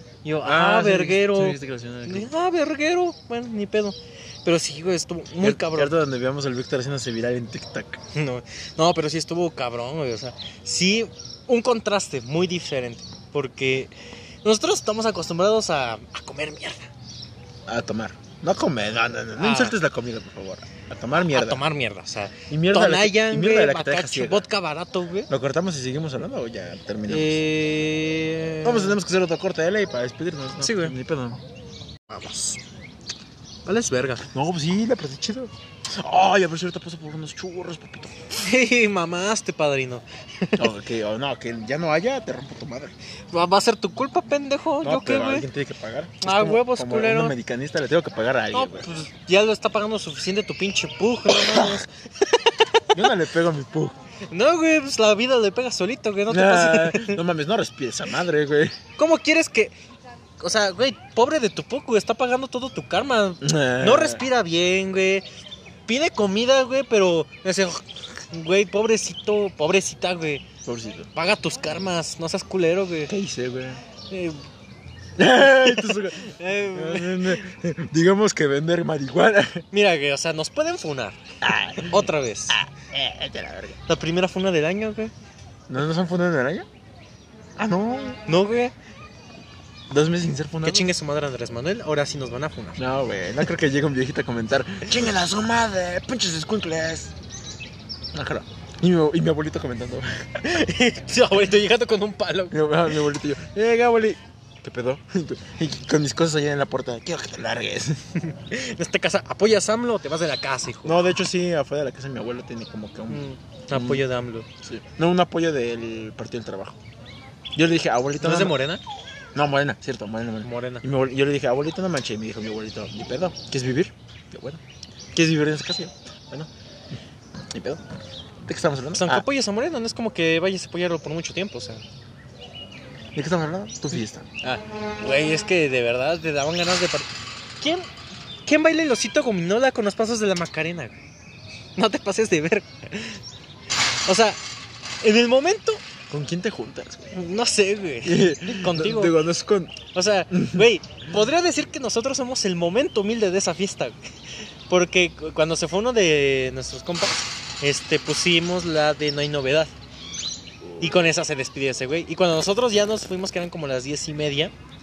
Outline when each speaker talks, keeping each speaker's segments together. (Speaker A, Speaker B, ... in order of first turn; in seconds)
Speaker A: 0.2-5.9, 8.1-13.9, 14.4-16.9, 19.4-19.8, 21.2-25.3, 27.1-29.0, 30.6-30.9, 32.1-32.6, 33.6-34.3, 38.3-40.7, 43.3-45.5, 46.2-47.3, 48.5-53.1, 54.3-57.2, 59.0-59.7, 60.4-65.2, 65.9-70.4, 71.1-73.1, 74.1-74.4, 75.3-77.5, 79.7-81.2, 81.8-82.6, 83.9-85.1, 88.3-88.7, 90.6-92.8, 100.4-102.6, 108.2-111.0, 113.1-114.5, 118.2-118.8, 120.4-120.8, 129.0-131.8, 134.4-137.1, 137.6-137.9, 138.4-141.0, 141.8-143.2, 144.1-144.4, 145.0-145.8, 147.1-149.2, 149.9-154.0, 154.7-159.7, 160.8-164.5
Speaker B: 0.4-2.3, 5.4-8.0, 17.7-21.6, 22.5-24.5, 25.3-27.4, 28.6-31.4, 34.3-38.2, 40.6-42.9, 44.8-48.9, 51.3-51.8, 52.9-54.0, 56.3-58.7, 63.4-64.2, 70.6-71.1, 73.1-73.8, 75.2-79.6, 81.4-83.8, 85.7-86.7, 87.6-88.2, 89.9-90.9, 92.8-97.1, 98.1-100.1, 102.5-108.0, 110.8-114.0, 114.6-116.8, 117.5-118.6, 119.3-124.6, 125.1-126.5, 127.5-127.8, 128.4-129.2, 133.1-134.3, 146.1-147.2, 148.0-149.8, 150.3-150.7, 160.6-161.0